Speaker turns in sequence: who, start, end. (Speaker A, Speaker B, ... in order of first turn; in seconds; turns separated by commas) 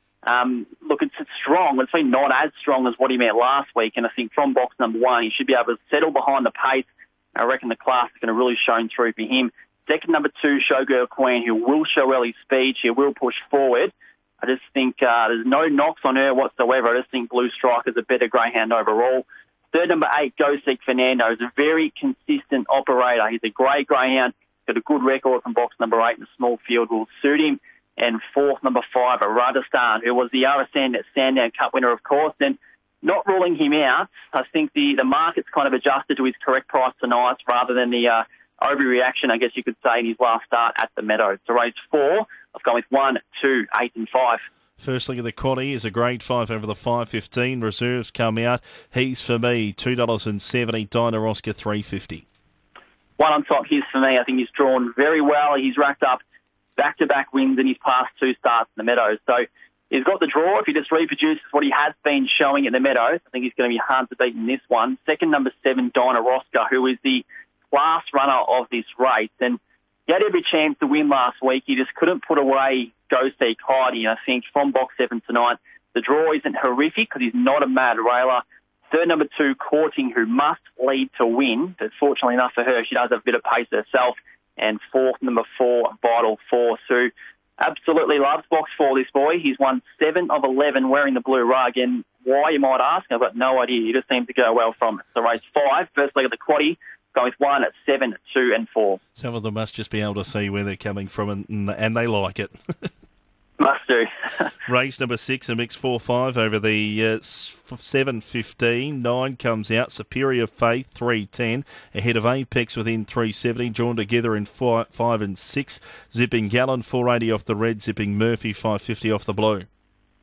Speaker A: 0.3-44.5, Speaker B: 44.8-52.2, Speaker A: 53.2-56.2, Speaker A: 56.8-99.0, Speaker B: 99.2-102.9, Speaker A: 103.6-104.1, Speaker B: 104.7-119.7